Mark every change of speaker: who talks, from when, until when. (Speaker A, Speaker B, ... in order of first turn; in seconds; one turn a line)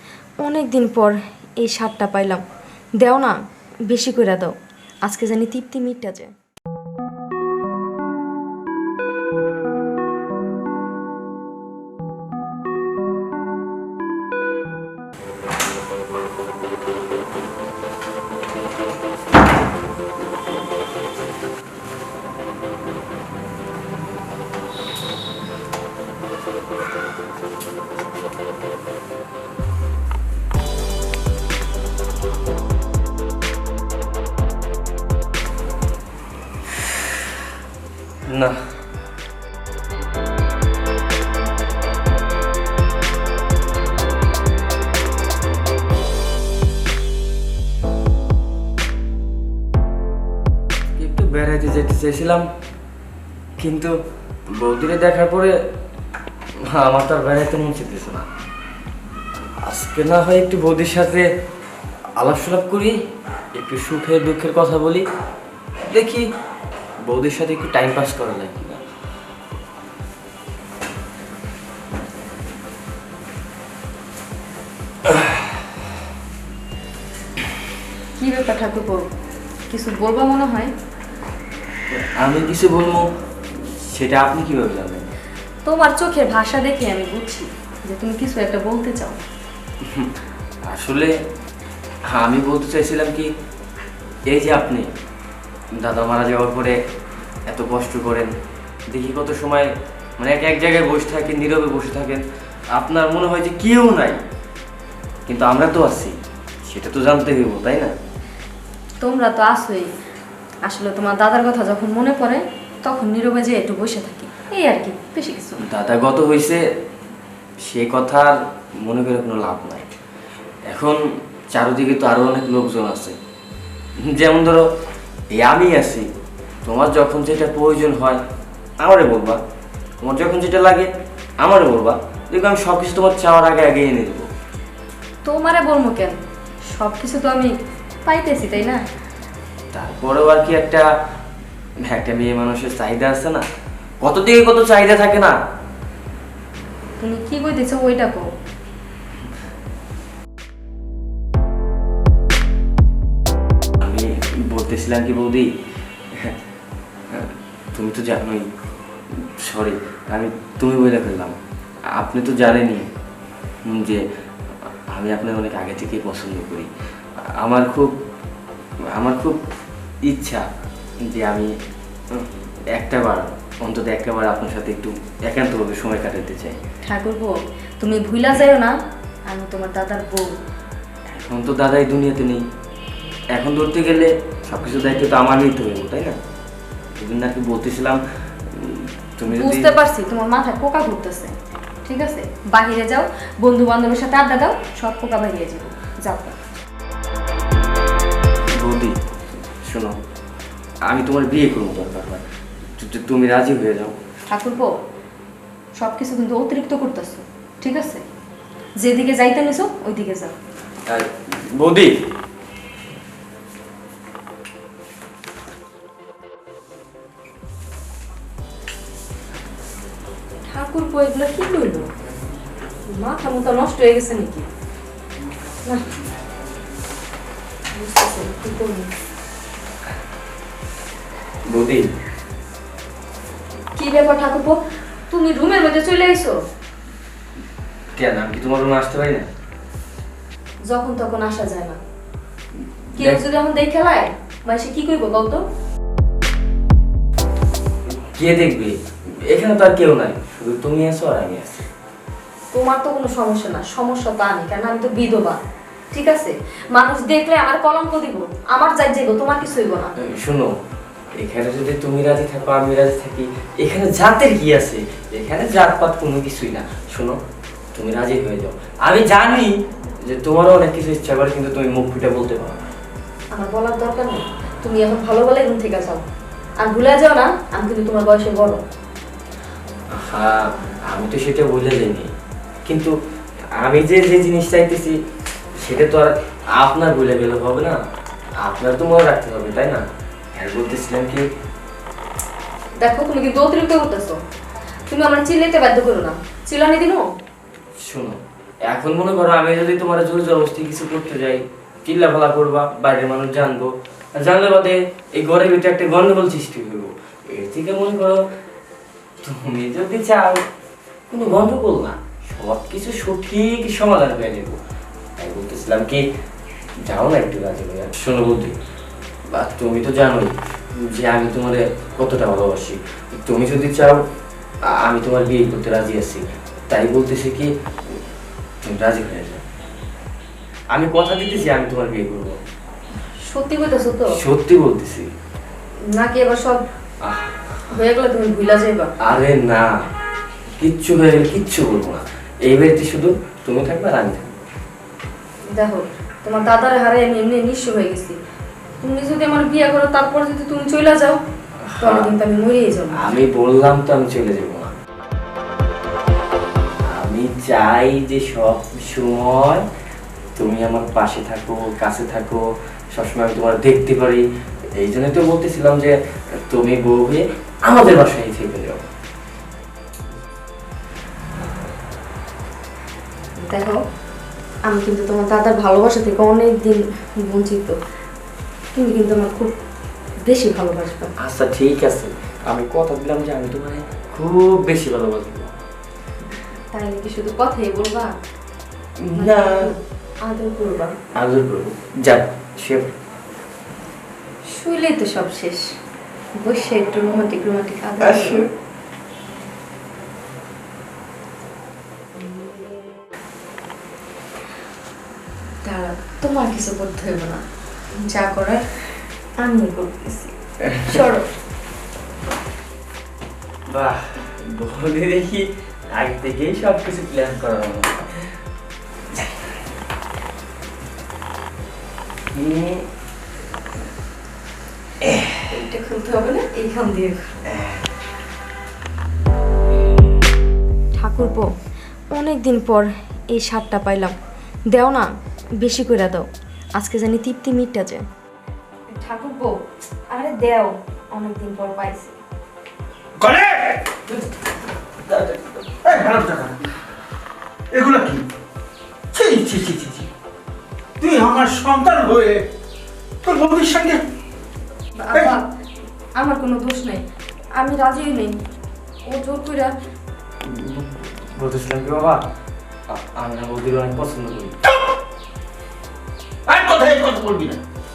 Speaker A: 0.4-2.4
Speaker A: 3.0-4.5
Speaker A: 5.0-6.3
Speaker B: 38.2-38.7
Speaker B: 50.9-52.5
Speaker B: 53.6-53.9
Speaker B: 54.5-55.5
Speaker B: 56.7-58.2
Speaker B: 59.6-61.3
Speaker B: 62.1-63.0
Speaker B: 63.5-65.0
Speaker B: 65.8-66.3
Speaker B: 67.0-68.8
Speaker B: 75.0-75.6
Speaker A: 78.2-79.1
Speaker A: 79.7-80.7
Speaker B: 81.9-85.1
Speaker A: 85.6-89.2
Speaker B: 90.7-91.1
Speaker B: 92.1-93.3
Speaker B: 94.3-94.9
Speaker B: 95.8-96.8
Speaker B: 97.5-98.3
Speaker B: 98.9-104.2
Speaker B: 105.2-107.9
Speaker A: 109.0-109.9
Speaker A: 110.6-115.6
Speaker B: 115.6-116.6
Speaker B: 117.6-119.9
Speaker B: 120.7-123.2
Speaker B: 124.1-124.7
Speaker B: 125.3-126.1
Speaker B: 126.6-128.2
Speaker B: 128.8-129.4
Speaker B: 130.0-130.9
Speaker B: 131.4-134.3
Speaker A: 135.2-137.5
Speaker A: 138.1-138.8
Speaker B: 139.7-140.9
Speaker B: 141.8-143.4
Speaker B: 144.0-145.4
Speaker A: 147.0-148.2
Speaker B: 153.8-155.5
Speaker B: 157.1-158.5
Speaker B: 159.1-161.4
Speaker B: 161.9-162.9
Speaker B: 163.7-164.0
Speaker B: 164.9-166.7
Speaker B: 167.4-167.9
Speaker B: 168.9-169.4
Speaker B: 170.1-170.4
Speaker B: 171.1-171.5
Speaker B: 172.1-176.6
Speaker A: 176.8-178.7
Speaker A: 179.3-180.3
Speaker B: 181.1-182.4
Speaker B: 183.3-186.2
Speaker B: 186.9-189.8
Speaker A: 189.3-191.3
Speaker A: 191.8-196.4
Speaker B: 198.5-199.0
Speaker B: 199.6-200.0
Speaker B: 200.9-202.2
Speaker B: 202.8-204.0
Speaker A: 204.3-204.8
Speaker A: 205.8-208.0
Speaker A: 208.8-210.3
Speaker B: 210.9-211.9
Speaker A: 220.4-221.9
Speaker A: 222.9-224.4
Speaker A: 227.7-228.9
Speaker B: 231.5-231.9
Speaker A: 233.7-236.4
Speaker B: 237.9-239.3
Speaker A: 240.7-241.8
Speaker B: 242.9-243.2
Speaker A: 242.9-245.4
Speaker B: 247.9-251.7
Speaker A: 252.5-255.4
Speaker A: 255.9-259.9
Speaker B: 260.0-260.5
Speaker B: 261.2-267.2
Speaker B: 267.7-272.7
Speaker A: 273.3-276.0
Speaker A: 276.6-278.6
Speaker B: 279.9-282.1
Speaker B: 282.6-282.9
Speaker B: 283.6-285.0
Speaker B: 285.6-287.8
Speaker B: 288.4-289.8
Speaker B: 290.4-291.2
Speaker A: 292.8-294.2
Speaker A: 294.9-297.1
Speaker B: 297.9-308.2
Speaker B: 309.2-310.4
Speaker B: 311.1-314.6
Speaker B: 315.2-316.0
Speaker B: 316.9-318.6
Speaker B: 319.3-324.0
Speaker B: 324.7-328.0
Speaker B: 328.6-329.4
Speaker B: 330.7-332.4
Speaker A: 333.2-334.2
Speaker B: 334.1-335.1
Speaker A: 335.9-336.6
Speaker B: 337.0-337.5
Speaker A: 337.7-338.9
Speaker B: 339.0-339.7
Speaker B: 340.6-344.3
Speaker A: 345.5-348.2
Speaker A: 348.8-351.2
Speaker B: 351.6-352.1
Speaker A: 351.8-353.2
Speaker B: 353.0-354.7
Speaker B: 356.9-359.6
Speaker B: 360.4-362.4
Speaker B: 362.9-364.2
Speaker B: 364.8-365.9
Speaker B: 366.5-368.9
Speaker A: 373.4-373.8
Speaker A: 374.6-377.8
Speaker A: 378.7-379.5
Speaker A: 380.2-381.1
Speaker B: 381.2-385.5
Speaker A: 386.7-388.1
Speaker B: 389.0-389.7
Speaker A: 389.1-391.0
Speaker B: 391.1-392.9
Speaker A: 394.5-395.6
Speaker A: 396.4-398.4
Speaker B: 398.0-398.5
Speaker A: 405.6-407.4
Speaker A: 408.0-408.6
Speaker A: 409.4-411.3
Speaker B: 410.7-411.0
Speaker B: 413.7-418.3
Speaker B: 422.3-422.8
Speaker B: 425.0-425.4
Speaker A: 425.5-427.3
Speaker B: 427.5-427.8
Speaker A: 430.9-431.5
Speaker A: 432.1-434.1
Speaker A: 434.7-438.1
Speaker A: 438.9-442.1
Speaker C: 443.2-443.8
Speaker C: 445.8-446.6
Speaker C: 447.7-448.2
Speaker C: 449.1-450.1
Speaker C: 451.0-452.5
Speaker C: 453.2-454.0
Speaker A: 455.0-455.5
Speaker A: 456.1-457.0
Speaker A: 457.5-458.4
Speaker A: 459.1-459.7
Speaker B: 460.4-462.2
Speaker B: 462.9-464.6
Speaker C: 466.4-467.6